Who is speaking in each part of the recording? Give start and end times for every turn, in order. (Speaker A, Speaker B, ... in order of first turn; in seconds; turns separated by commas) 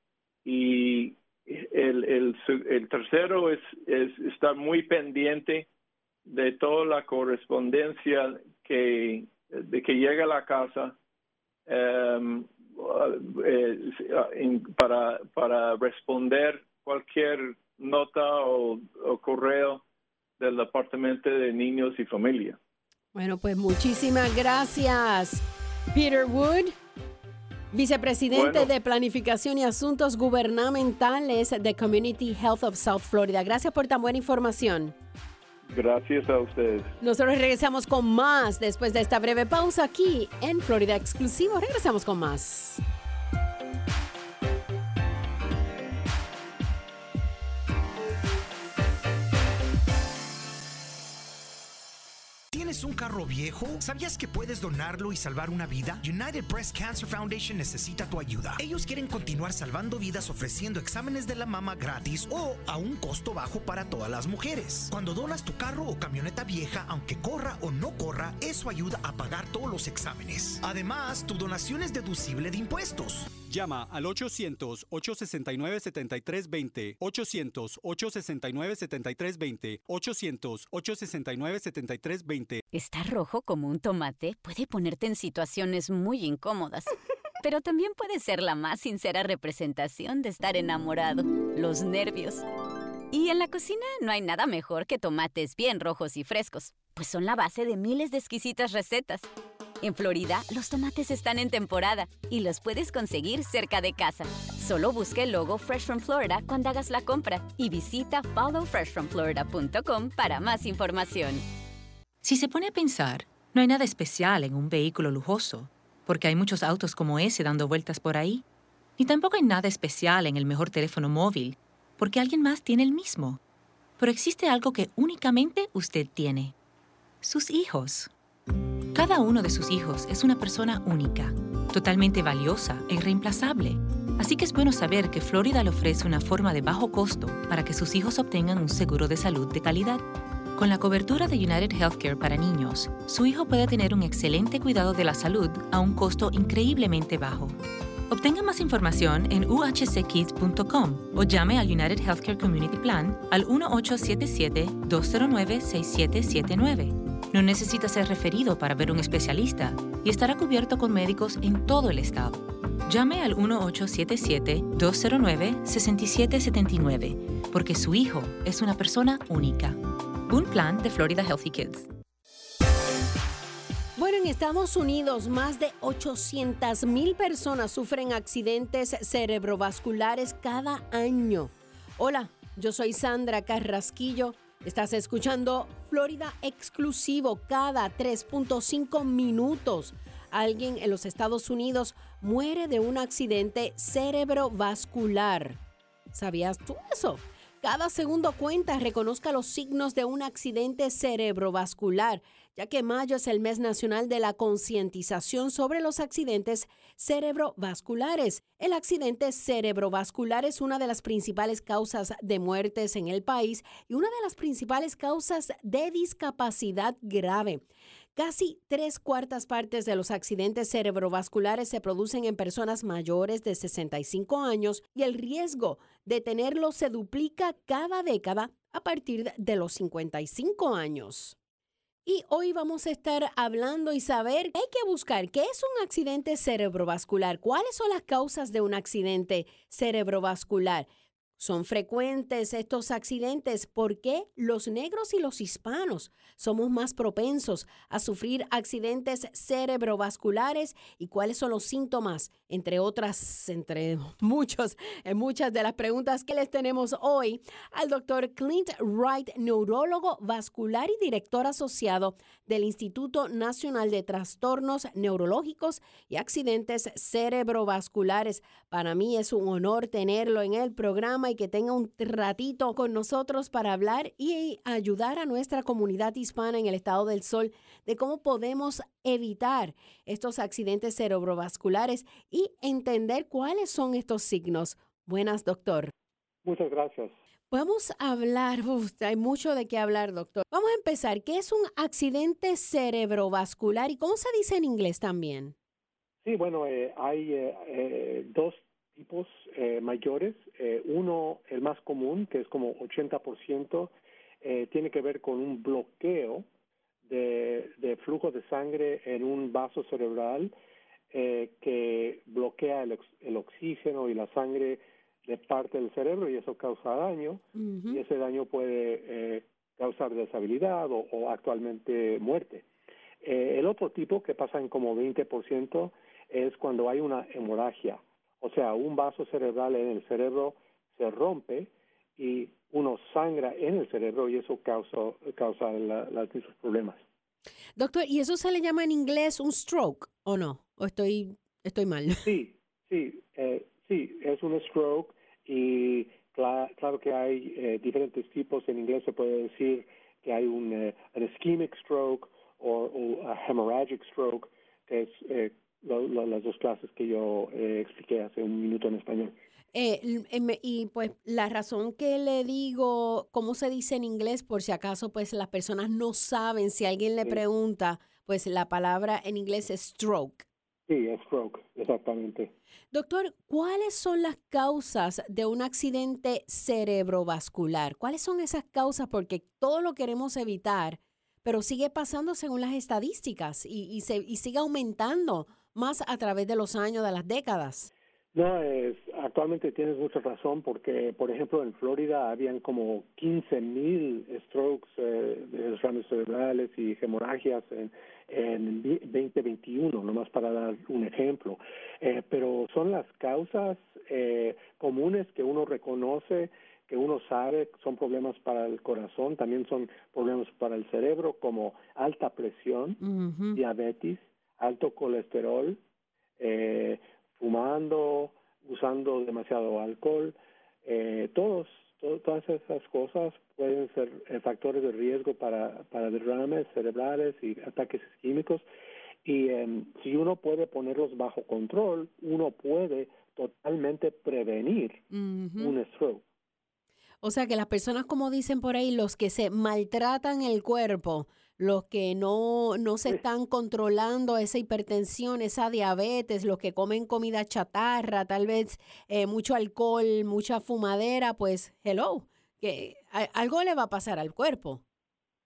Speaker A: 0.4-5.7, Speaker A: 6.2-10.9, Speaker A: 11.7-19.8, Speaker A: 20.4-22.6, Speaker B: 23.1-26.8, Speaker B: 27.7-34.9, Speaker A: 28.3-28.7, Speaker A: 35.6-36.9, Speaker B: 37.0-42.8, Speaker C: 52.5-73.3, Speaker D: 73.4-82.6, Speaker E: 82.7-92.5, Speaker E: 93.1-99.3, Speaker E: 99.8-111.4, Speaker F: 112.2-118.4, Speaker F: 119.0-123.4, Speaker F: 124.0-126.5, Speaker F: 127.2-128.1, Speaker F: 128.9-140.0, Speaker F: 140.6-147.6, Speaker F: 148.1-171.9, Speaker B: 173.9-195.6, Speaker B: 196.1-217.6, Speaker B: 218.2-231.3, Speaker B: 232.0-285.9, Speaker G: 286.4-287.1, Speaker B: 287.5-295.5, Speaker G: 296.2-306.4, Speaker G: 307.1-310.5, Speaker G: 311.1-322.6, Speaker B: 317.5-318.0, Speaker G: 323.2-337.0, Speaker B: 337.8-342.3, Speaker G: 342.2-359.4, Speaker B: 359.7-370.4, Speaker G: 370.9-372.5, Speaker B: 372.9-387.9, Speaker G: 388.3-413.0, Speaker B: 413.0-413.6, Speaker G: 413.5-415.8, Speaker G: 416.4-428.6, Speaker G: 429.2-435.1, Speaker B: 435.1-435.8, Speaker G: 435.6-436.2, Speaker B: 437.2-454.8